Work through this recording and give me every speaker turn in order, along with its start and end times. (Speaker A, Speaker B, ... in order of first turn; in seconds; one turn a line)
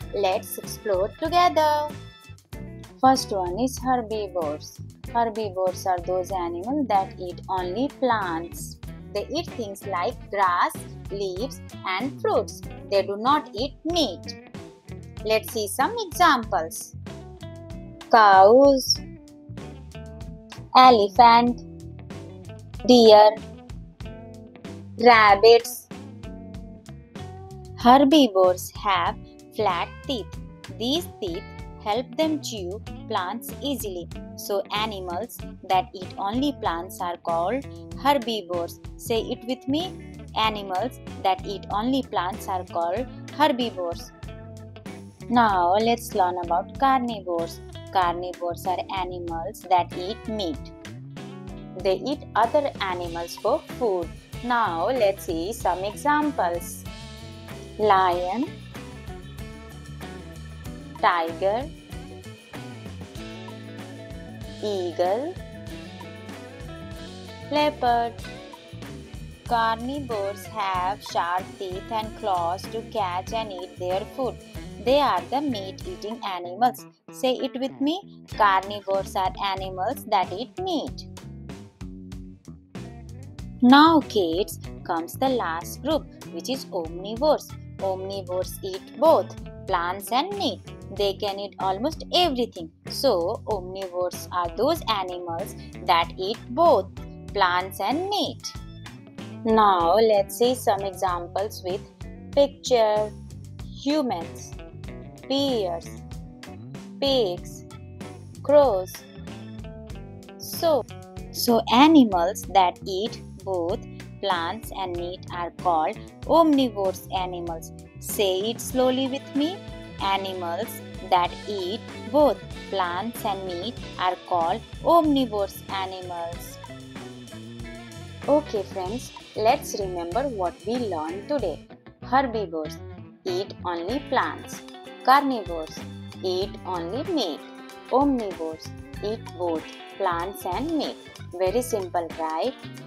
Speaker A: 0.1-1.9
Speaker A: 3.0-14.4
Speaker A: 15.2-16.9
Speaker A: 18.1-19.0
Speaker A: 20.7-21.6
Speaker A: 22.8-23.4
Speaker A: 25.0-25.9
Speaker A: 27.8-44.1
Speaker A: 45.3-50.7
Speaker A: 51.8-56.9
Speaker A: 57.8-58.5
Speaker A: 61.0-61.7
Speaker A: 64.6-65.3
Speaker A: 67.5-68.2
Speaker A: 69.5-81.1
Speaker A: 83.6-98.5
Speaker A: 99.5-103.1
Speaker A: 103.8-104.5
Speaker A: 105.3-106.0
Speaker A: 107.0-107.7
Speaker A: 108.4-109.0
Speaker A: 110.4-110.8
Speaker A: 111.3-126.6
Speaker A: 128.3-142.6